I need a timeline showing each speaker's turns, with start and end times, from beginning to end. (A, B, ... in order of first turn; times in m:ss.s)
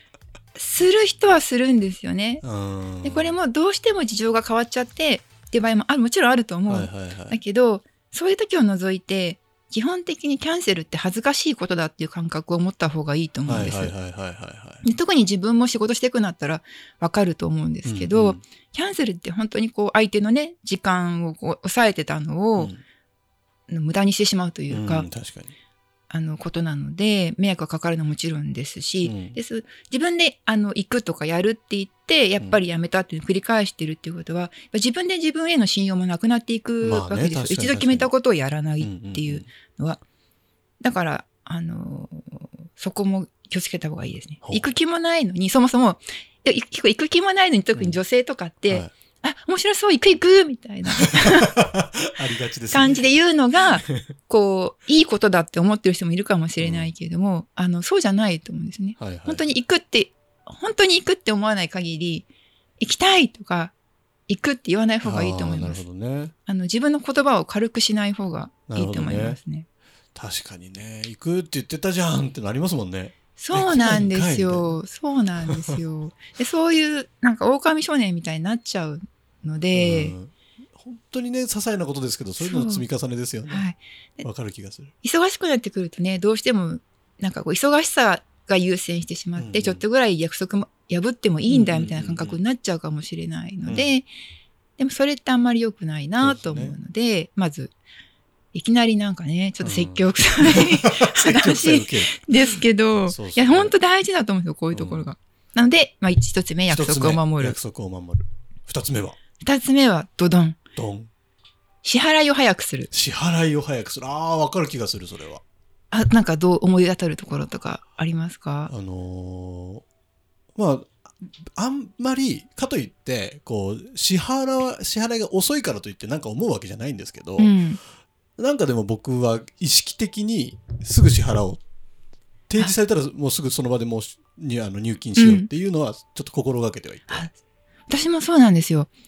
0:00.5-0:02.4 A
0:02.4-0:03.4 B
0:03.0-0:13.9 A
0:06.7-0:07.4 B
0:13.4-0:14.8 B
0:14.8-0:22.7 A
0:17.8-0:18.4 B
0:23.7-0:25.1 A
0:24.7-0:25.5 B
0:26.1-0:40.0 A
0:29.0-0:29.4 B
0:36.8-0:38.1 B
0:38.8-0:39.4 B
0:40.8-0:51.6 A
0:44.4-0:44.7 B
0:51.0-0:53.1 B
0:52.7-1:02.3 A
0:56.6-0:56.9 B
0:59.0-0:59.4 B
1:02.8-1:03.7 A
1:04.3-1:05.8 A
1:05.0-1:06.3 B
1:06.4-1:09.7 A
1:08.7-1:09.4 B
1:10.1-1:14.7 B
1:13.4-1:20.1 A
1:15.4-1:15.8 B
1:19.7-1:23.7 B
1:22.4-1:22.8 A
1:23.5-1:24.3 A
1:24.2-1:24.9 B
1:25.0-1:34.1 A
1:29.4-1:29.8 B
1:31.5-1:32.4 B
1:34.8-1:37.7 A
1:36.2-1:36.8 B
1:38.5-1:47.6 A
1:39.6-1:43.7 B
1:44.7-1:45.0 B
1:46.7-1:49.2 B
1:49.4-1:50.6 A
1:50.8-1:51.1 B
1:51.8-1:52.9 A
1:52.9-1:55.4 B
1:55.9-1:58.7 A
1:58.7-1:59.8 B
2:00.5-2:00.9 B
2:01.6-2:07.6 B
2:07.4-2:07.8 A
2:08.4-2:11.6 B
2:12.5-2:17.3 B
2:15.2-2:15.5 A
2:17.1-2:17.3 A
2:17.9-2:18.9 A